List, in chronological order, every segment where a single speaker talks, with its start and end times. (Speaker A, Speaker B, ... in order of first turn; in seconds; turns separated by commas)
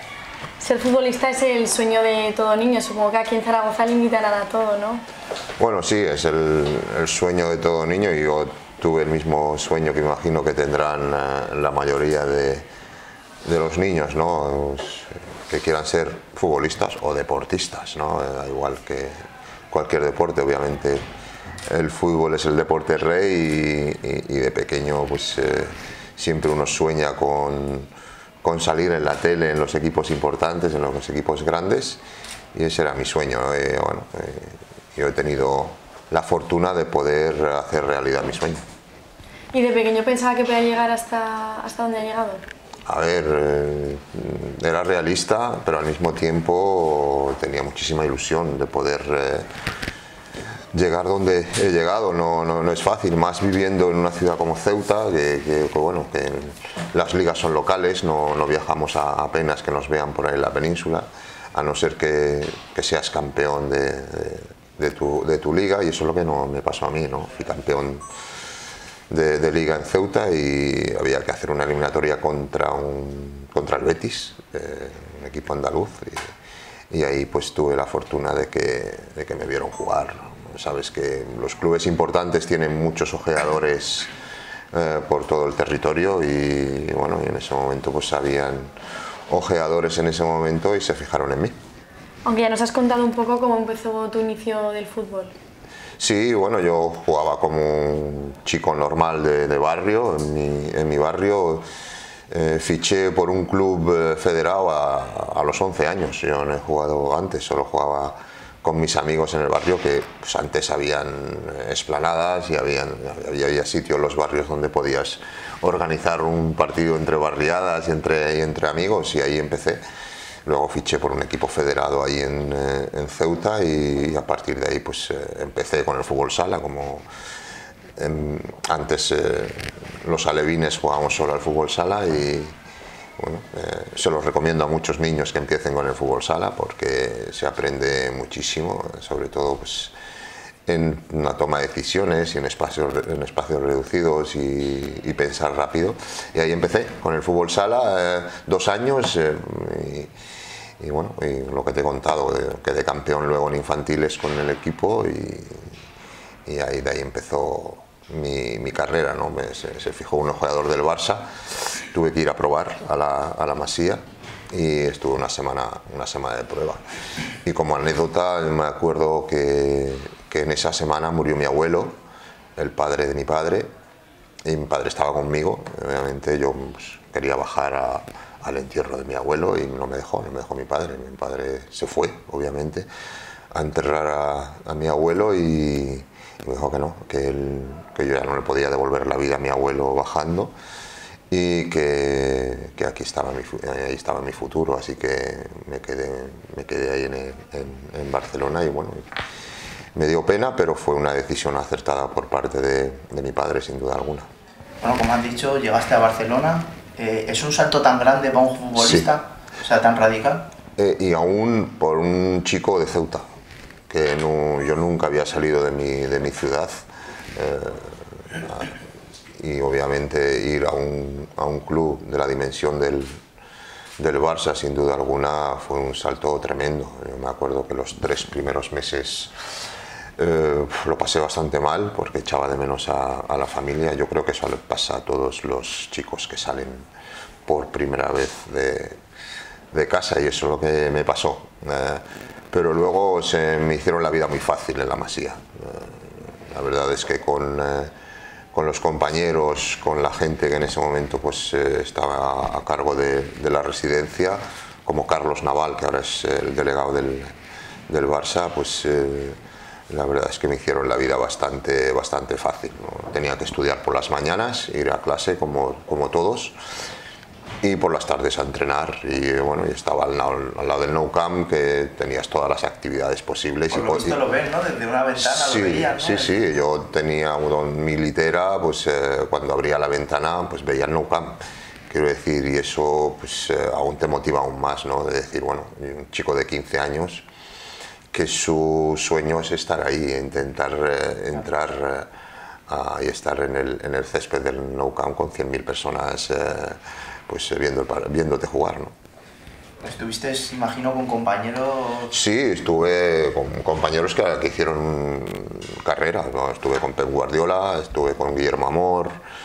Speaker A: 0.6-5.0, Speaker B: 5.6-12.7, Speaker B: 13.4-21.0, Speaker B: 21.7-27.9, Speaker B: 28.4-32.0, Speaker B: 32.5-38.6, Speaker A: 39.5-42.4, Speaker B: 42.9-49.5, Speaker B: 50.7-68.0, Speaker B: 69.1-76.3, Speaker B: 76.9-84.1, Speaker B: 84.7-88.7, Speaker B: 89.3-91.5, Speaker A: 92.2-95.3, Speaker B: 96.0-101.7, Speaker B: 102.3-119.8, Speaker B: 120.5-127.0, Speaker B: 128.0-132.5, Speaker B: 133.2-139.9, Speaker B: 140.7-150.1, Speaker B: 150.8-155.7, Speaker B: 156.4-166.8, Speaker B: 167.4-171.9, Speaker B: 172.6-173.7, Speaker B: 174.4-182.9, Speaker B: 183.5-190.5, Speaker B: 191.3-199.1, Speaker B: 199.9-204.3, Speaker C: 204.8-210.5, Speaker B: 208.8-209.1, Speaker B: 210.8-213.3, Speaker B: 213.9-218.8, Speaker B: 219.3-223.2, Speaker B: 224.0-229.3, Speaker B: 230.2-236.9, Speaker B: 237.4-239.0, Speaker B: 239.7-247.9, Speaker B: 248.5-257.3, Speaker B: 257.9-259.4, Speaker B: 259.9-266.6, Speaker B: 267.6-274.2, Speaker C: 273.7-276.4, Speaker B: 275.2-287.2, Speaker B: 288.1-292.1, Speaker B: 292.7-298.9, Speaker C: 299.8-302.1, Speaker B: 302.1-309.1